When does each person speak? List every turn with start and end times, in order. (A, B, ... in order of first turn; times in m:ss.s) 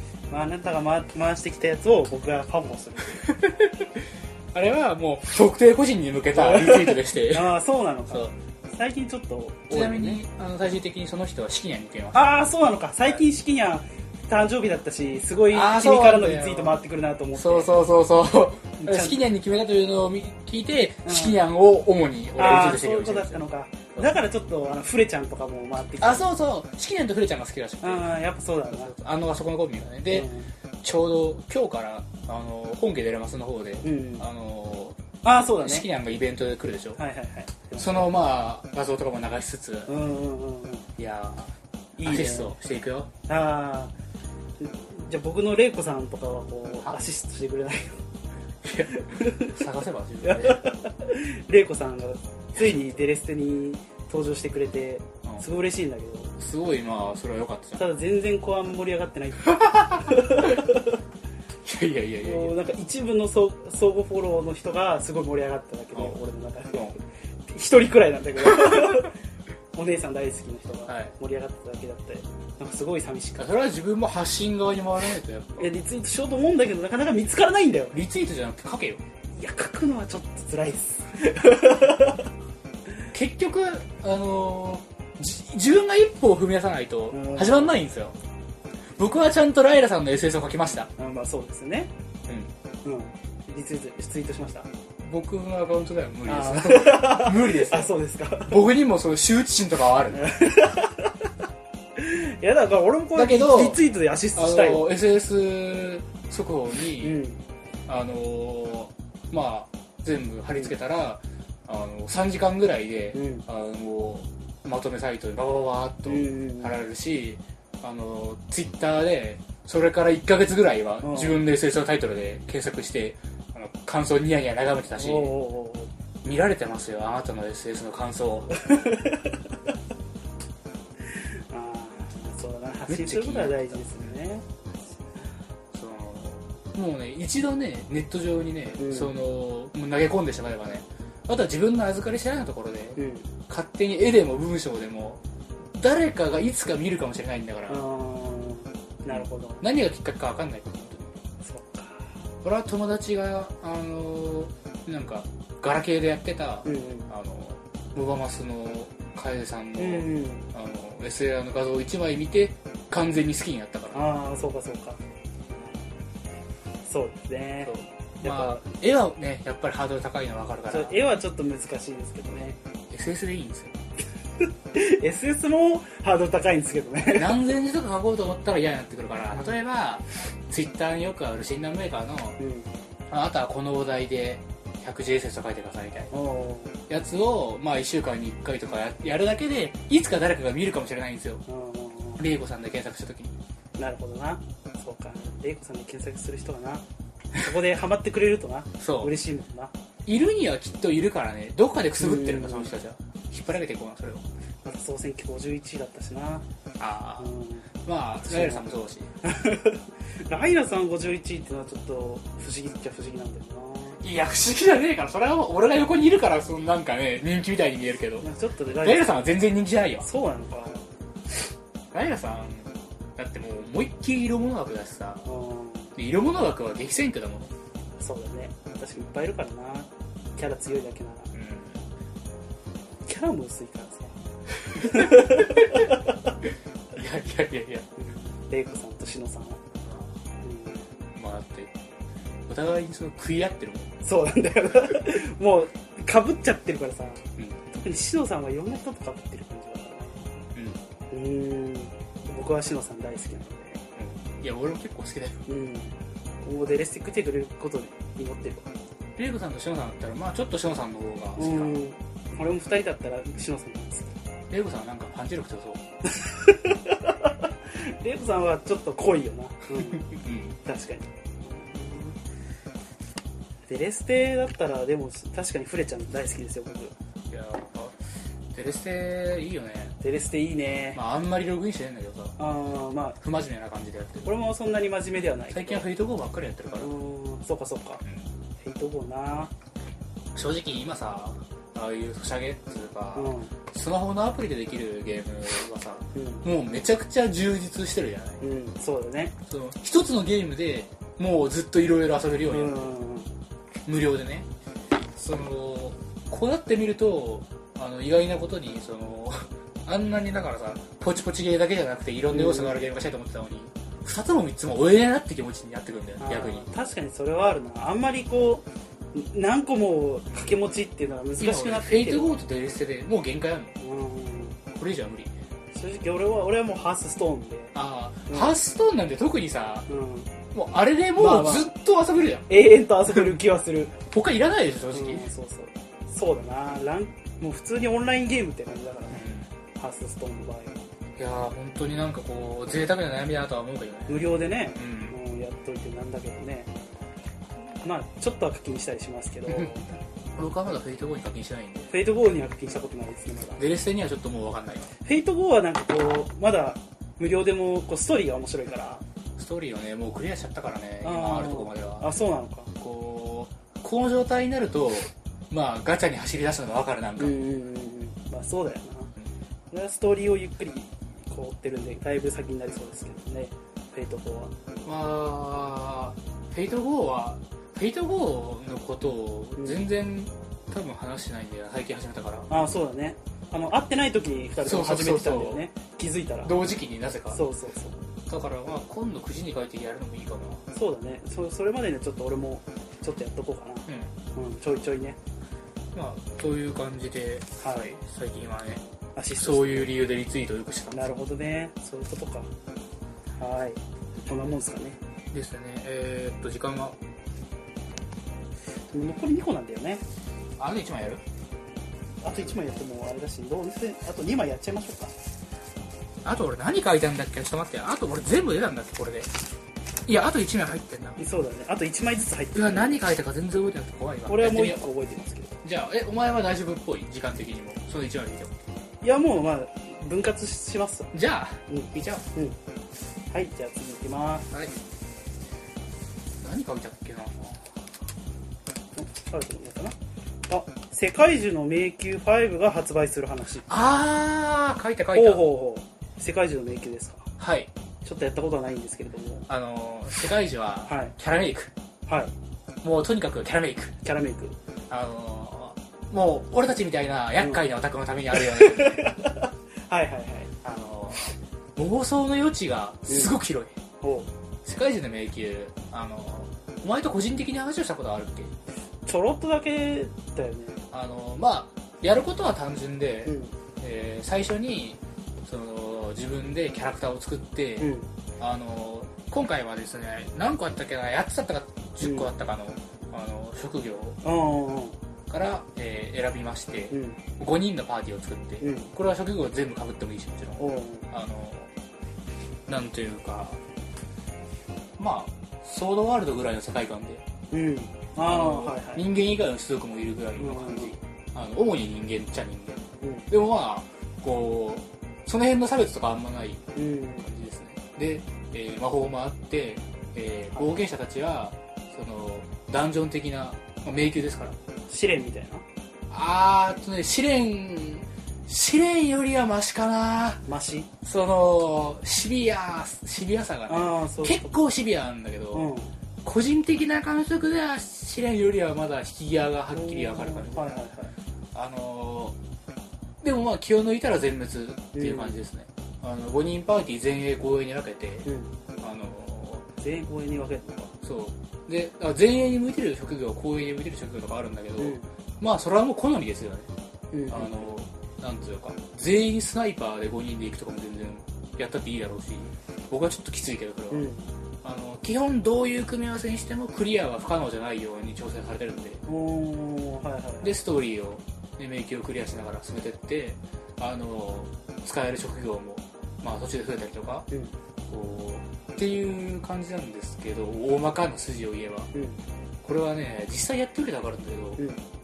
0:00.3-0:03.4 A
0:03.2-0:07.5 B
0:06.3-0:10.2 A
0:09.7-0:12.3 B
0:12.1-0:17.7 A
0:15.5-0:16.8 B
0:17.3-0:23.4 B
0:18.8-0:19.2 A
0:21.0-0:21.4 A
0:22.4-0:26.3 A
0:26.0-0:28.2 B
0:27.8-0:28.9 A
0:28.7-0:30.3 B
0:30.1-0:30.5 A
0:30.8-0:35.0 B
0:33.8-0:34.2 A
0:35.2-0:35.9 A
0:35.5-0:37.0 B
0:37.0-0:38.1 A
0:37.8-0:39.9 B
0:39.9-0:40.9 A
0:41.0-0:43.1 B
0:42.0-0:42.6 A
0:43.3-0:43.9 A
0:44.6-0:48.0 A
0:48.6-0:50.6 B
0:48.9-0:49.6 A
0:50.2-0:56.3 A
0:52.6-0:52.9 B
0:56.4-0:57.8 B
0:57.8-1:01.0 A
0:59.4-1:00.6 B
1:01.6-1:02.5 B
1:02.2-1:09.1 A
1:06.7-1:07.0 B
1:08.4-1:09.0 B
1:09.7-1:13.5 A
1:10.9-1:11.1 B
1:13.4-1:15.7 B
1:15.6-1:18.0 A
1:17.9-1:19.0 B
1:19.3-1:22.2 A
1:23.1-1:28.2 B
1:27.1-1:27.8 A
1:29.0-1:30.9 B
1:30.9-1:31.9 A
1:32.8-1:34.7 A
1:35.0-1:40.2 B
1:36.3-1:38.6 A
1:40.1-1:41.2 A
1:42.0-1:44.8 A
1:43.1-1:43.8 B
1:44.3-1:47.2 B
1:47.0-1:47.4 A
1:47.9-2:05.4 B
1:53.1-1:53.4 A
1:56.0-1:56.8 A
2:01.0-2:01.4 A
2:04.9-2:05.9 A
2:06.2-2:08.5 B
2:08.5-2:09.4 A
2:11.1-2:14.5 A
2:12.9-2:14.1 B
2:15.7-2:25.2 B
2:18.8-2:19.1 A
2:23.0-2:23.3 A
2:25.7-2:27.8 B
2:27.7-2:29.6 A
2:29.1-2:31.1 B
2:31.4-2:32.1 A
2:32.4-2:44.1 B
2:36.6-2:37.1 A
2:39.8-2:40.4 A
2:43.9-2:45.0 A
2:46.8-2:48.6 A
2:47.6-2:51.0 B
2:50.7-2:52.6 A
2:52.9-2:53.8 B
2:54.4-2:57.4 A
2:57.1-3:02.4 B
3:02.4-3:02.7 A
3:03.1-3:06.1 B
3:06.1-3:06.7 A
3:06.9-3:11.4 B
3:11.5-3:12.2 A
3:12.2-3:13.4 B
3:13.8-3:16.8 A
3:17.4-3:19.7 A
3:18.8-3:19.1 B
3:20.0-3:24.2 B
3:22.0-3:22.7 A
3:24.6-3:26.4 A
3:26.8-3:27.3 B
3:27.2-3:27.7 A
3:27.8-3:29.1 B
3:28.3-3:28.6 A
3:29.2-3:34.0 A
3:34.0-3:38.3 B
3:38.2-3:39.3 A
3:38.8-3:40.1 B
3:40.0-3:40.8 A
3:41.9-3:45.3 B
3:45.2-3:45.9 A
3:46.0-3:47.5 B
3:48.0-3:51.3 A
3:51.3-3:51.8 B
3:53.1-3:54.1 A
3:54.6-3:55.9 B
3:54.7-3:56.4 A
3:56.9-3:57.9 B
3:58.0-3:59.6 A
3:59.8-4:00.1 B
4:00.4-4:00.8 A
4:01.1-4:01.7 B
4:02.5-4:03.9 B
4:04.0-4:10.4 A
4:07.4-4:07.6 B
4:10.5-4:10.8 B
4:11.1-4:13.8 A
4:14.0-4:15.4 B
4:15.5-4:18.7 A
4:19.2-4:21.8 B
4:21.4-4:24.1 A
4:24.5-4:25.8 B
4:26.1-4:30.1 A
4:29.8-4:30.6 B
4:30.6-4:32.2 A
4:33.7-4:36.9 A
4:37.3-4:38.0 B
4:38.5-4:40.0 B
4:40.0-4:41.0 A
4:40.9-4:42.4 B
4:42.4-4:43.2 A
4:43.2-4:44.3 B
4:44.2-4:45.8 A
4:45.5-4:46.9 B
4:46.8-4:48.0 A
4:48.6-4:49.5 A
4:50.3-4:58.4 B
4:53.2-4:53.5 A
4:56.1-4:56.4 A
4:58.4-4:59.3 A
4:59.4-5:02.9 B
5:02.5-5:03.3 A
5:03.8-5:04.5 B
5:05.1-5:16.7 B
5:12.3-5:13.0 A
5:16.2-5:22.4 A
5:21.4-5:23.7 B
5:23.8-5:24.6 A
5:24.7-5:25.3 B
5:25.7-5:27.7 A
5:27.7-5:29.9 B
5:28.3-5:28.6 A
5:29.9-5:30.3 A
5:30.5-5:32.5 B
5:31.2-5:31.7 A
5:32.5-5:33.9 A
5:34.0-5:35.2 B
5:34.9-5:39.2 A
5:39.1-5:39.5 B
5:39.8-5:40.8 A
5:41.2-5:44.2 B
5:44.1-5:46.7 A
5:44.8-5:45.2 B
5:47.8-5:49.9 A
5:49.5-5:49.8 B
5:50.4-5:51.9 B
5:51.9-5:53.6 A
5:53.6-5:54.9 B
5:55.0-5:59.0 A
5:59.4-6:02.1 B
6:01.0-6:02.7 A
6:02.8-6:07.4 B
6:07.2-6:09.1 A
6:09.7-6:14.5 A
6:14.8-6:22.5 B
6:19.6-6:19.8 A
6:22.5-6:26.6 A
6:24.6-6:25.6 B
6:26.4-6:27.4 B
6:27.3-6:28.0 A
6:28.3-6:30.6 B
6:30.7-6:35.2 A
6:33.9-6:34.1 B
6:35.9-6:38.8 B
6:37.6-6:37.9 A
6:39.2-6:40.0 A
6:39.4-6:41.2 B
6:40.9-6:42.5 A
6:43.4-6:45.0 A
6:45.3-6:47.0 B
6:48.9-6:50.0 A
6:50.6-6:51.2 B
6:52.2-6:55.1 A
6:56.2-6:59.3 B
7:00.1-7:01.2 B
7:01.2-7:03.0 A
7:02.5-7:04.8 B
7:04.3-7:05.6 A
7:05.6-7:08.5 B
7:09.0-7:11.1 A
7:11.1-7:12.2 B
7:11.7-7:12.6 A
7:13.3-7:14.5 A
7:14.5-7:14.8 B
7:16.4-7:17.7 B
7:19.0-7:19.9 A
7:20.5-7:23.7 A
7:23.7-7:25.4 B
7:25.1-7:27.3 A
7:27.4-7:27.7 B
7:28.0-7:29.4 A
7:29.5-7:31.7 B
7:30.8-7:31.1 A
7:32.1-7:32.3 A
7:32.8-7:33.9 B
7:34.0-7:34.6 A
7:34.9-7:39.1 B
7:38.3-7:40.5 A
7:40.6-7:41.2 B
7:41.8-7:43.7 B
7:43.1-7:43.4 A
7:44.0-7:44.3 A
7:44.6-7:48.5 B
7:49.0-7:50.8 A
7:50.9-8:04.2 B
7:53.2-7:53.5 A
7:57.8-7:58.1 A
8:02.0-8:02.3 A
8:04.2-8:05.0 A
8:05.3-8:11.7 B
8:06.9-8:07.2 A
8:08.6-8:08.9 A
8:10.6-8:11.0 A
8:12.7-8:13.6 B
8:15.0-8:17.2 B
8:17.5-8:19.0 A
8:18.2-8:26.6 B
8:20.4-8:20.9 A
8:23.0-8:23.3 A
8:26.7-8:27.3 A
8:27.2-8:34.6 B
8:34.9-8:35.6 A
8:36.1-8:40.4 B
8:40.5-8:40.9 A
8:41.0-8:45.7 B
8:43.7-8:44.5 A
8:45.5-8:45.9 A
8:46.2-8:50.6 B
8:49.7-8:51.1 A
8:51.5-8:52.4 B
8:53.2-8:58.3 B
8:54.9-8:55.4 A
8:58.2-8:58.5 A
8:58.8-8:59.7 B
8:59.8-9:00.9 A
9:01.0-9:06.7 B
9:04.8-9:05.1 A
9:07.1-9:07.7 A
9:07.3-9:14.1 B
9:13.9-9:14.3 A
9:14.6-9:19.0 B
9:19.1-9:20.5 A
9:20.4-9:27.3 B
9:27.9-9:31.9 B
9:31.9-9:32.2 A
9:32.6-9:34.6 B
9:34.6-9:34.8 A